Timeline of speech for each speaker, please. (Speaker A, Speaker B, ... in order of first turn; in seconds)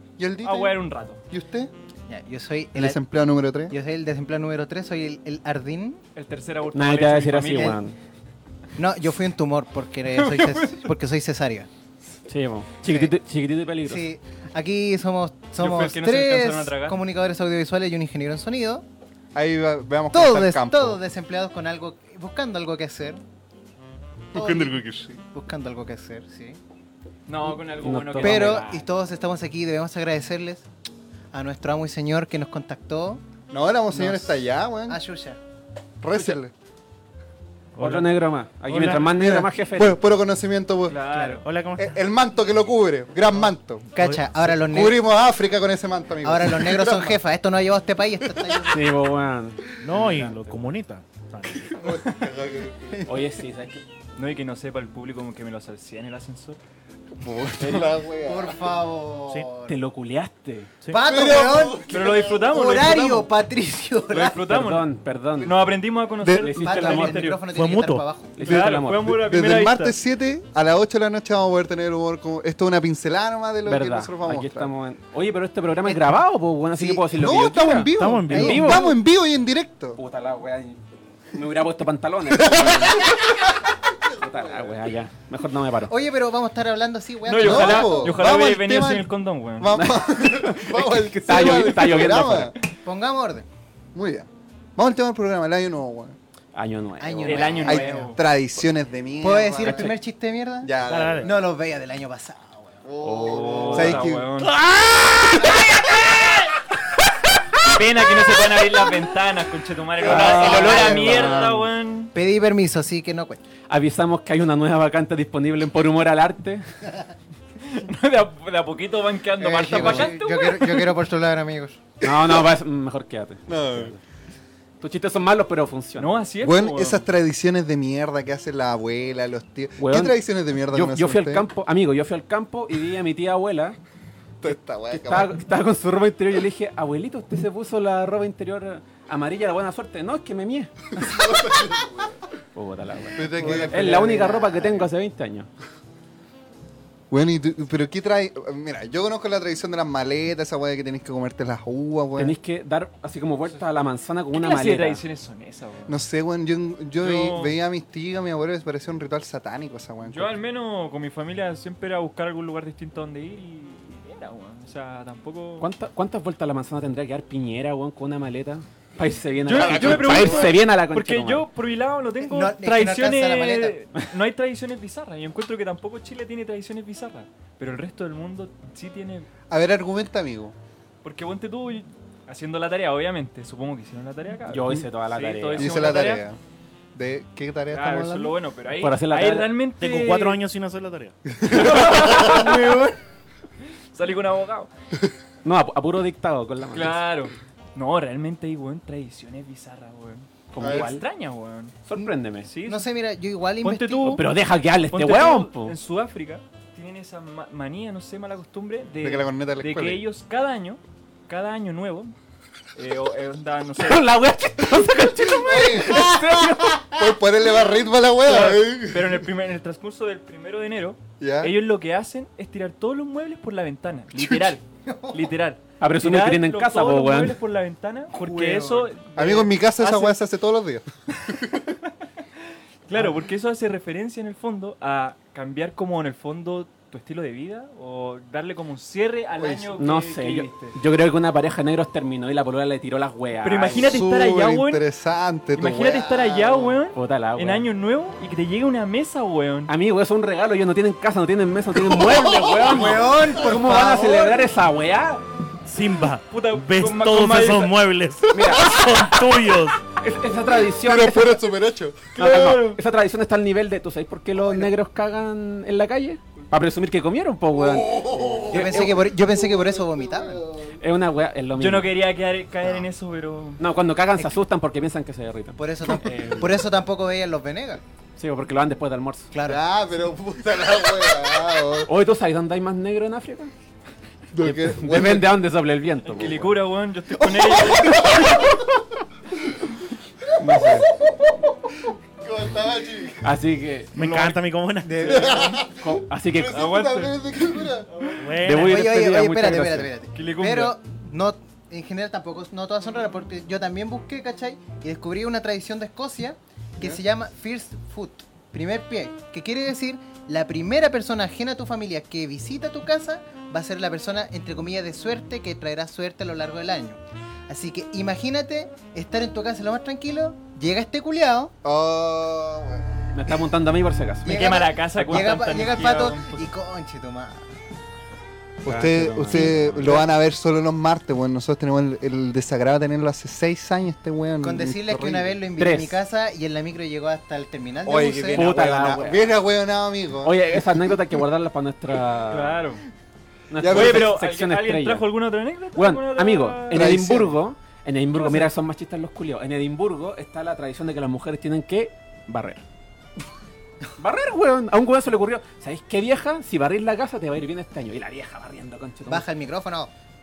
Speaker A: 0.2-1.7, 2.7-3.7, 19.3-21.0, 24.3-25.2, 33.5-35.0, 36.0-36.5, 39.0-41.0, 41.8-43.9, 44.6-47.2, 48.2-48.6, 51.7-53.1, 57.2-58.8, 61.0-62.5, 66.2-66.5, 68.4-74.7, 77.1-80.0, 82.4-83.3, 83.9-84.8, 87.4-92.5, 93.9-96.2, 97.6-99.9, 100.6-101.3, 102.8-104.3, 110.0-111.5, 119.7-120.2, 122.0-122.5, 123.5-123.9, 126.4-131.4, 134.4-135.3, 140.9-142.2, 143.1-144.9, 147.1-152.3, 155.9-160.3, 169.5-170.5, 179.5-180.5, 185.6-186.4, 186.9-188.3, 191.4-192.5, 200.6-200.9, 209.0-210.0, 215.3-219.2, 221.2-221.6, 224.1-224.5, 229.1-231.6, 239.4-239.7, 243.7-246.8, 251.7-253.9, 260.8-262.2, 264.4-264.7, 267.5-270.8, 279.4-281.9, 284.3-285.3, 287.2-288.7, 289.5-293.3, 295.0-298.1, 321.6-323.1, 328.6-335.4, 337.8-340.6, 343.6-344.1, 346.7-347.4
Speaker B: 0.4-1.2, 6.1-7.8, 10.1-10.9, 15.6-17.0, 27.3-28.7, 40.9-41.4, 54.1-56.6, 61.8-63.3, 64.1-64.9, 65.4-67.4, 68.4-70.0, 87.2-89.8, 97.2-98.2, 103.2-104.6, 107.6-112.1, 117.6-120.8, 126.0-127.0, 154.3-156.0, 157.0-157.5, 160.1-165.7, 169.4-179.3, 181.0-186.2, 187.7-190.4, 191.5-192.9, 193.9-194.7, 196.7-201.7, 202.4-202.9, 203.6-204.2, 204.9-212.1, 212.7-214.1, 218.2-230.2, 232.9-240.8, 243.4-244.8, 245.6-249.7, 256.3-257.8, 262.2-262.8, 271.6-273.6, 286.1-288.4, 296.5-297.1, 297.9-298.2, 300.1-300.8, 324.2-326.5, 342.3-342.8, 343.6-346.9, 348.1-348.5
Speaker C: 2.1-3.0, 3.7-6.0, 8.8-11.7, 12.8-13.1, 13.8-18.8, 20.1-23.2, 24.3-26.6, 28.2-30.6, 31.3-33.2, 33.9-35.4, 41.1-41.4, 43.9-45.0, 46.2-48.8, 51.8-52.2, 58.2-59.7, 60.9-61.8, 62.4-64.4, 66.6-68.4, 75.8-76.2, 76.8-77.0, 78.3-79.0, 85.9-88.2, 92.8-93.5, 97.0-98.1, 99.2-102.8, 110.3-111.3, 112.1-113.4, 119.4-121.8, 143.3-144.6, 172.2-173.8, 202.6-204.2, 224.8-225.3, 228.1-228.9, 252.6-254.5, 268.5-270.4, 275.6-277.8, 279.3-279.6, 294.8-295.6, 298.5-321.5, 324.2-327.5, 329.3-330.0, 334.4-338.5, 359.1-359.9
Speaker D: 6.7-8.0, 12.3-14.0, 27.7-28.8, 37.8-40.0, 48.7-50.6, 53.0-53.8, 57.6-57.9, 59.6-60.7, 64.5-65.5, 66.2-67.3, 68.3-69.2, 73.7-78.8, 80.0-83.2, 84.2-85.9, 89.7-92.5, 96.5-97.8, 99.6-100.0, 103.0-105.6, 110.0-111.6, 113.7-116.7, 122.0-124.0, 124.8-126.2, 129.8-130.2, 130.7-133.8, 134.4-141.4, 142.5-145.5, 152.2-155.0, 165.6-171.4, 184.5-185.9, 188.8-189.5, 191.5-192.6, 195.4-197.0, 200.5-201.0, 201.8-202.5, 204.1-205.7, 213.8-216.8, 225.8-227.4, 239.8-244.0, 246.9-247.7, 249.7-255.2, 258.3-259.0, 260.0-261.4, 262.1-269.0, 270.8-271.9, 273.6-276.6, 278.2-279.3, 281.8-283.5, 284.4-286.5, 290.4-290.9, 293.2-294.3, 295.8-296.7, 298.4-299.9, 323.1-324.4, 328.6-330.1, 335.6-336.0, 338.3-339.3, 340.2-342.6, 343.5-345.1, 345.7-352.6, 354.0-359.2
Speaker E: 37.8-38.1, 38.7-39.1, 41.4-42.0, 44.0-44.5, 49.8-51.8, 67.5-68.0, 77.9-78.8, 100.8-101.3, 189.8-191.1, 255.7-259.8, 293.9-295.5, 298.2-298.9